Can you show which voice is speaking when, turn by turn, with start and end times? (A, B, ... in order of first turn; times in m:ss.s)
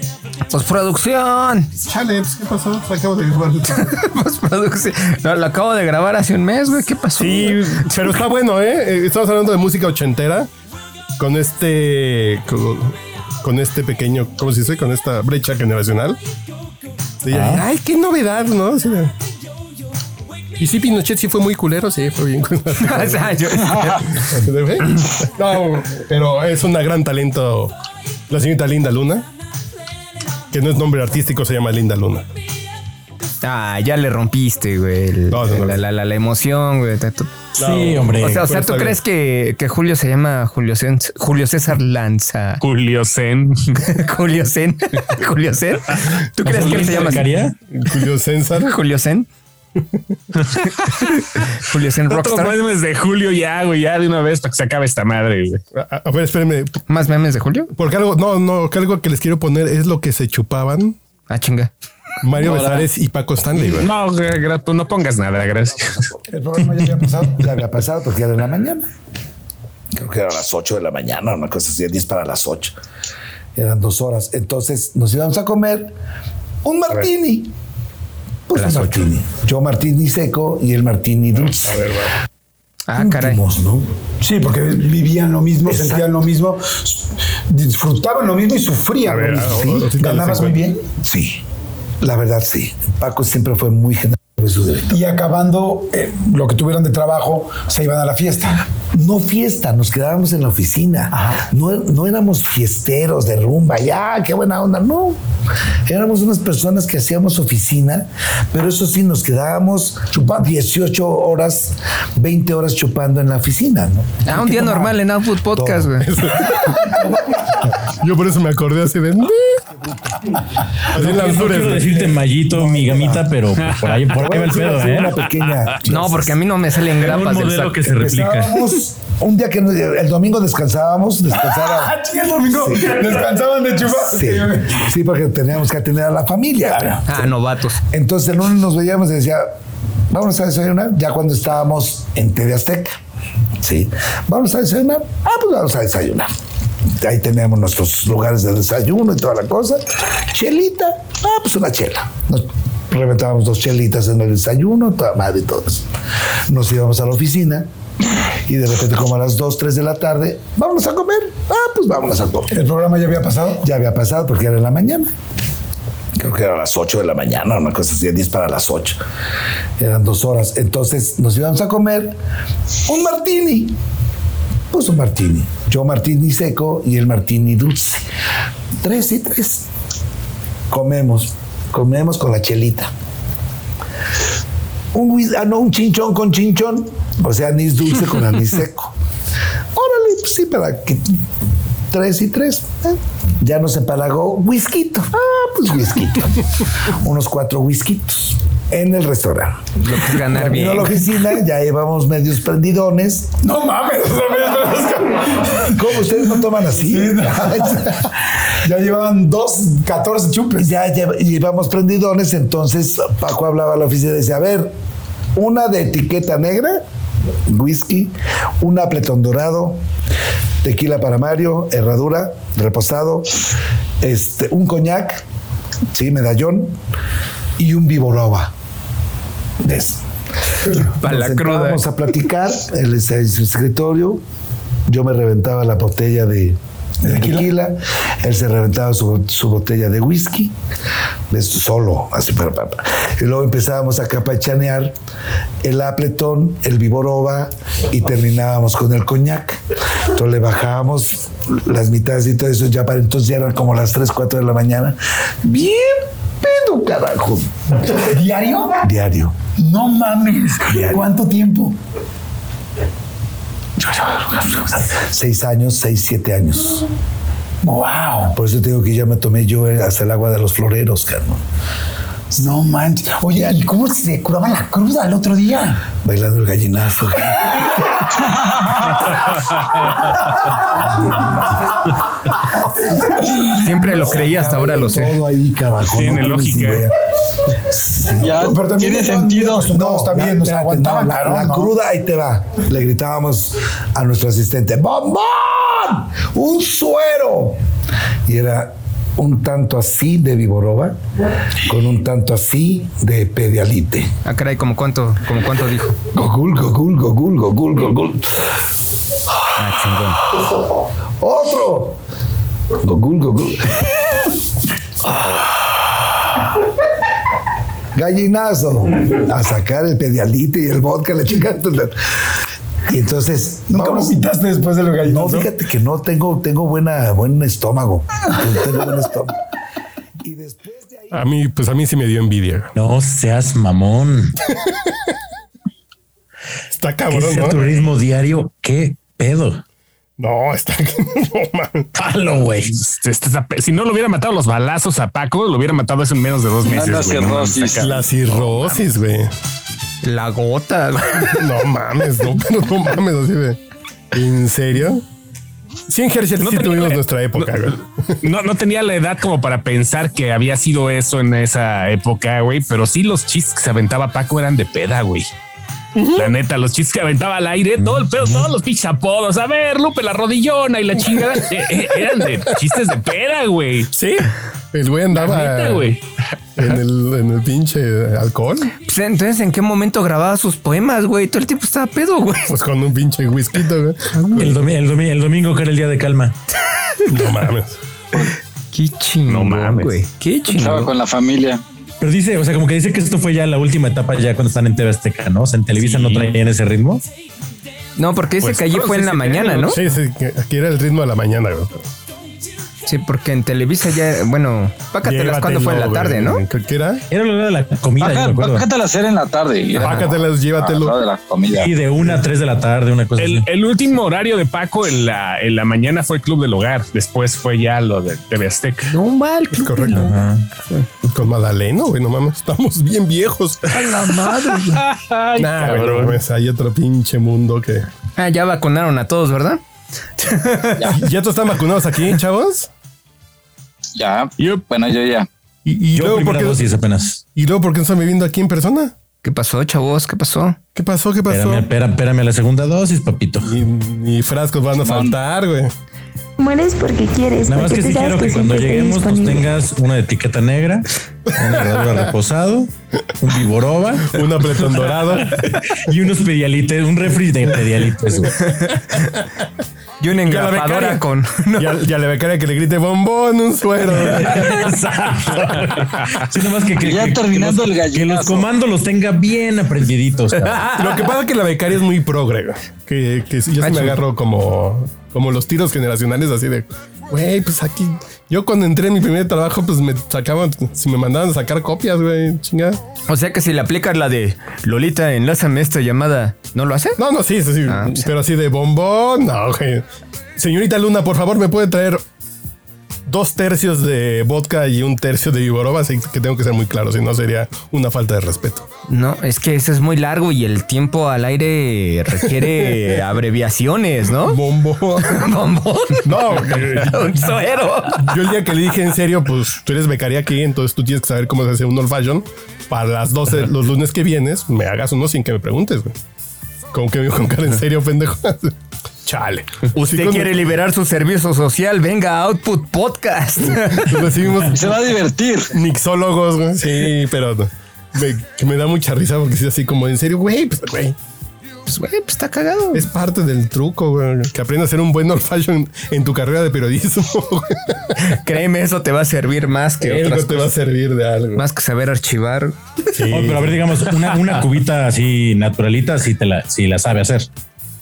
0:00.5-0:01.7 A
0:01.8-0:04.0 B
0:03.7-0:08.0 A
0:07.2-0:10.5 B
0:11.2-0:16.2 B
0:17.2-0:19.2 B
0:17.3-0:17.6 C
0:20.6-0:23.6 B
0:22.8-0:24.3 A
0:23.6-0:24.0 D
0:24.1-0:27.7 B
0:28.3-0:29.3 B
0:30.5-0:32.3 B
0:33.4-0:37.3 A
0:35.3-0:35.8 B
0:37.6-0:38.5 C
0:37.6-0:39.0 B
0:38.2-0:42.6 A
0:42.6-0:43.8 E
0:43.8-0:47.4 A
0:46.4-0:47.6 C
0:47.7-0:48.8 B
0:48.6-0:49.3 A
0:50.6-0:52.6 A
0:52.1-0:55.6 E
0:55.7-0:56.8 B
0:56.9-0:57.7 A
0:57.7-1:01.0 B
1:01.3-1:01.7 A
1:02.2-1:03.9 B
1:02.4-1:02.9 D
1:03.6-1:06.1 E
1:06.3-1:08.9 F
1:06.5-1:07.5 G
1:09.9-1:12.8 F
1:13.6-1:16.0 F
1:16.6-1:17.5 F
1:18.5-1:21.9 F
1:18.6-1:19.1 A
1:22.9-1:23.4 A
1:23.0-1:23.9 F
1:24.2-1:30.8 G
1:25.7-1:26.1 F
1:29.0-1:30.6 B
1:29.4-1:31.4 F
1:32.0-1:35.0 F
1:34.9-1:38.7 G
1:38.9-1:45.2 F
1:41.1-1:41.4 G
1:45.9-1:56.0 F
1:54.3-1:56.1 A
1:56.0-1:57.0 B
1:57.8-1:59.6 B
2:00.9-2:02.0 B
2:00.9-2:05.2 C
2:02.0-2:03.3 F
2:03.6-2:04.0 E
2:04.1-2:06.4 F
2:05.8-2:07.9 A
2:06.9-2:08.7 C
2:08.0-2:08.8 G
2:08.3-2:17.3 F
2:11.3-2:14.9 G
2:16.7-2:17.0 G
2:17.0-2:17.8 A
2:17.9-2:19.6 F
2:20.1-2:23.0 F
2:23.6-2:26.3 F
2:27.0-2:35.9 F
2:36.5-2:37.7 F
2:38.5-2:42.6 F
2:42.5-2:43.6 G
2:43.6-2:45.1 F
2:46.2-2:49.0 F
2:49.8-2:52.2 F
2:52.9-2:53.8 F
2:54.7-2:58.1 F
2:58.8-2:59.7 F
3:00.7-3:02.9 F
3:04.9-3:09.0 F
3:09.7-3:11.2 F
3:11.9-3:23.4 F
3:19.8-3:21.0 A
3:23.4-3:28.0 G
3:25.7-3:28.1 F
3:28.6-3:30.7 G
3:30.6-3:34.8 F
3:35.4-3:36.8 F
3:37.5-3:39.8 F
3:40.6-3:43.4 F
3:44.0-3:45.2 F
3:45.9-3:46.8 F
3:47.6-3:48.5 F
3:49.6-3:50.0 F
3:50.7-3:54.2 F
3:51.0-3:51.8 A
3:54.9-4:00.5 F
3:57.1-3:57.5 G
4:01.3-4:05.0 F
4:05.6-4:18.0 F
4:17.9-4:18.8 G
4:18.8-4:19.5 F
4:19.5-4:21.8 G
4:20.7-4:21.1 F
4:23.9-4:26.9 F
4:23.9-4:24.7 G
4:27.6-4:28.4 G
4:28.3-4:31.4 F
4:32.3-4:35.9 G
4:35.9-4:37.6 F
4:38.2-4:39.0 D
4:43.1-4:46.9 F
4:43.6-4:45.2 A
4:45.8-4:46.9 E
4:47.7-4:48.5 F
4:48.2-4:49.7 D
4:48.4-4:51.7 G
4:49.6-4:57.6 F
4:58.3-5:01.0 F
5:01.6-5:04.1 F
5:04.2-5:05.9 A
5:06.0-5:08.5 F
5:09.6-5:10.2 A
5:11.2-5:12.0 F
5:12.8-5:13.9 F
5:15.0-5:15.8 F
5:18.0-5:22.0 F
5:22.9-5:24.2 F
5:23.7-5:25.5 G
5:25.0-5:29.4 F
5:30.2-5:31.3 F
5:31.1-5:32.7 B
5:32.8-5:34.4 C
5:36.7-5:37.7 B
5:37.1-5:39.6 C
5:40.2-5:41.9 B
5:42.0-5:42.8 C
5:42.8-5:48.8 E
5:46.6-5:47.9 D
5:47.8-5:49.3 B
5:50.0-5:51.5 A
5:51.2-5:53.6 B
5:54.1-5:55.0 B
5:55.9-5:58.2 B
5:56.4-6:05.3 E
6:06.0-6:06.3 B
6:06.1-6:13.9 E
6:13.9-6:15.9 B
6:15.1-6:16.0 E
6:16.6-6:18.7 B
6:18.8-6:22.6 A
6:22.5-6:24.6 B
6:24.1-6:24.6 A
6:24.4-6:26.4 C
6:27.1-6:27.8 B
6:28.2-6:30.9 A
6:29.3-6:30.0 E
6:30.5-6:31.6 D
6:32.0-6:37.1 C
6:35.8-6:36.4 E
6:38.0-6:39.8 A
6:38.4-6:39.8 E
6:39.6-6:41.8 B
6:42.9-6:46.4 A
6:45.0-6:47.0 B
6:47.1-6:48.7 C
6:48.0-6:51.7 D
6:49.8-6:51.0 B
6:51.5-6:53.5 C
6:53.2-6:58.9 E
6:58.9-7:00.9 A
6:59.5-7:00.2 B
6:59.9-7:00.5 C
7:01.0-7:04.6 B
7:03.8-7:04.8 A
7:04.6-7:06.2 E
7:05.4-7:07.9 B
7:08.2-7:09.6 A
7:10.2-7:11.0 A
7:10.9-7:12.7 B
7:14.0-7:15.3 D
7:15.6-7:16.7 B
7:15.9-7:17.2 C
7:17.4-7:18.9 B
7:19.2-7:20.6 A
7:20.8-7:21.7 B
7:21.3-7:23.5 C
7:23.4-7:25.7 B
7:24.8-7:25.1 D
7:26.4-7:29.5 H
7:27.5-7:34.2 C
7:34.1-7:35.4 B
7:34.9-7:38.6 C
7:38.5-7:39.2 A
7:40.0-7:41.8 A
7:40.2-7:44.7 B
7:44.0-7:50.7 C
7:46.8-7:48.5 D
7:50.4-7:51.0 A
7:50.7-8:02.8 B
7:53.6-7:54.0 A
8:03.1-8:07.0 A
8:07.0-8:12.0 B
8:07.7-8:08.1 A
8:13.1-8:18.7 B
8:18.9-8:24.4 A
8:22.2-8:23.0 B
8:24.1-8:25.3 B
8:25.0-8:28.2 A
8:26.0-8:27.4 B
8:27.9-8:36.0 B
8:36.7-8:40.4 B
8:39.8-8:44.0 A
8:43.5-8:44.8 B
8:44.5-8:45.5 D
8:45.5-8:51.0 B
8:51.7-8:52.9 A
8:52.7-8:58.0 B
8:58.0-9:00.6 A
8:59.8-9:01.4 B
9:01.4-9:02.6 A
9:02.9-9:03.8 B
9:03.1-9:07.3 C